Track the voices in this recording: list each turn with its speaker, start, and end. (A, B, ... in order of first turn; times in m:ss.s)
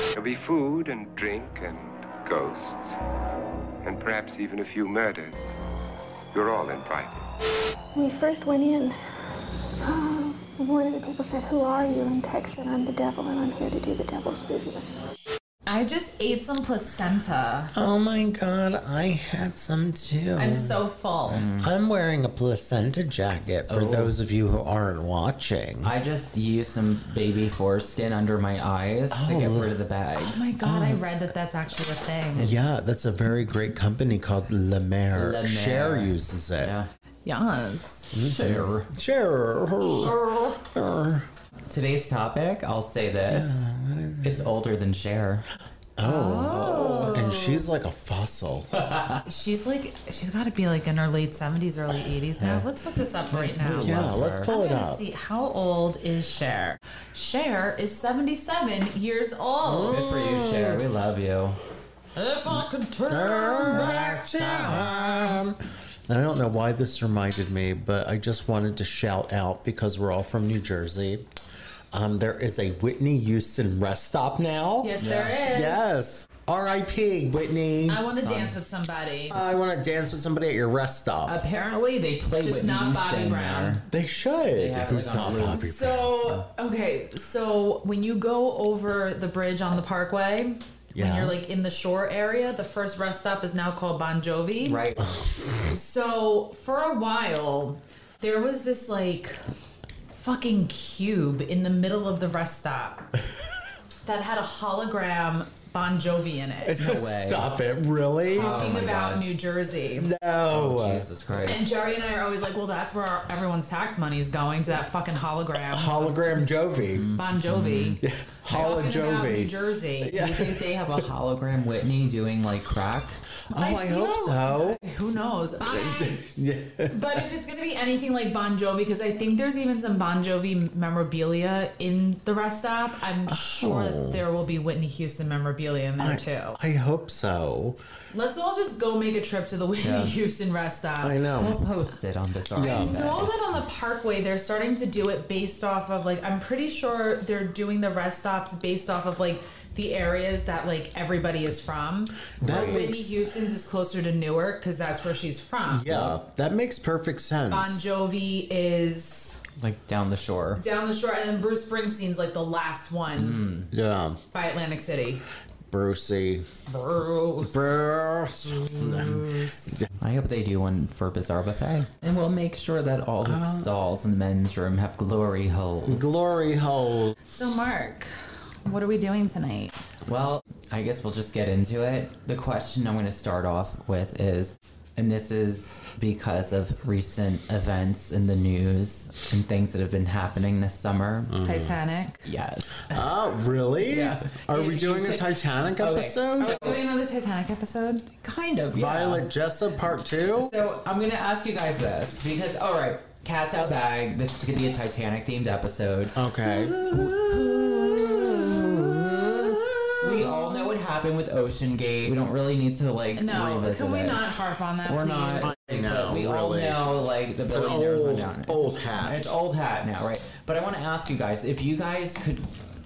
0:00.2-0:03.0 A
0:03.8-0:05.4 A
0:06.3-0:07.2 A
0:07.9-0:08.9 B
0:09.8-0:15.0 B
0:15.6-0:17.7 C
0:17.7-0:20.8 D
0:20.4-0:21.4 C
0:21.3-0:21.7 E
0:21.5-0:25.9 D
0:23.7-0:24.2 E
0:25.8-0:30.6 E
0:29.1-0:29.8 D
0:30.2-0:32.5 C
0:30.6-0:31.0 D
0:32.4-0:36.7 D
0:35.1-0:36.9 E
0:37.2-0:38.1 C
0:38.1-0:41.3 D
0:38.2-0:38.9 E
0:39.9-0:40.6 C
0:41.7-0:43.7 E
0:43.3-0:44.5 D
0:44.2-0:45.4 E
0:46.0-0:48.9 D
0:46.0-0:47.7 C
0:46.5-0:47.3 E
0:48.8-0:49.2 E
0:49.2-1:00.1 C
0:52.4-0:52.6 E
0:53.3-0:54.5 E
0:53.8-0:55.0 D
0:59.6-1:00.8 D
0:59.8-1:01.6 E
1:02.2-1:04.8 C
1:03.1-1:11.2 D
1:03.7-1:05.3 E
1:11.9-1:18.0 D
1:14.8-1:15.9 C
1:15.0-1:15.4 E
1:17.9-1:19.4 C
1:18.2-1:18.6 E
1:19.3-1:21.4 D
1:21.2-1:23.8 E
1:22.4-1:23.8 C
1:23.9-1:26.1 D
1:24.5-1:25.8 E
1:25.4-1:34.8 C
1:30.9-1:31.4 D
1:34.6-1:35.3 E
1:35.0-1:35.6 D
1:35.6-1:39.4 C
1:40.1-1:43.1 C
1:44.0-1:46.7 C
1:46.6-1:48.8 D
1:46.7-1:47.5 E
1:48.3-1:50.1 C
1:48.3-1:49.3 E
1:50.0-1:51.1 D
1:50.5-1:51.7 E
1:51.4-1:56.0 C
1:55.6-1:57.1 D
1:56.9-1:58.7 E
1:57.1-2:00.3 C
1:58.0-2:01.1 D
2:00.1-2:03.2 E
2:03.5-2:04.8 D
2:03.5-2:06.2 C
2:05.6-2:07.2 D
2:06.9-2:16.6 C
2:13.2-2:14.2 D
2:16.0-2:17.8 D
2:18.1-2:21.2 C
2:19.8-2:20.1 E
2:21.0-2:21.6 D
2:21.3-2:23.3 E
2:22.5-2:23.0 D
2:22.6-2:35.9 C
2:32.4-2:32.8 E
2:32.4-2:33.2 D
2:35.6-2:37.9 D
2:35.9-2:36.2 E
2:37.5-2:39.4 C
2:39.6-2:40.6 E
2:40.6-2:43.4 C
2:43.2-2:43.7 E
2:43.7-2:44.2 D
2:44.3-2:45.2 C
2:45.7-2:46.5 D
2:46.7-2:47.7 C
2:47.4-2:49.9 D
2:48.7-2:49.7 C
2:50.0-2:56.2 E
2:53.2-2:53.7 D
2:55.8-2:57.2 D
2:57.3-2:59.8 C
3:00.0-3:11.4 E
3:11.3-3:11.8 D
3:11.4-3:12.2 C
3:12.2-3:16.8 E
3:12.9-3:16.7 D
3:16.4-3:18.1 C
3:18.2-3:19.3 E
3:18.7-3:20.5 D
3:20.3-3:26.2 E
3:26.1-3:26.8 D
3:26.4-3:30.6 C
3:26.9-3:34.3 E
3:27.7-3:29.5 D
3:33.2-3:35.5 C
3:34.8-3:42.5 E
3:35.4-3:36.9 D
3:37.4-3:39.4 D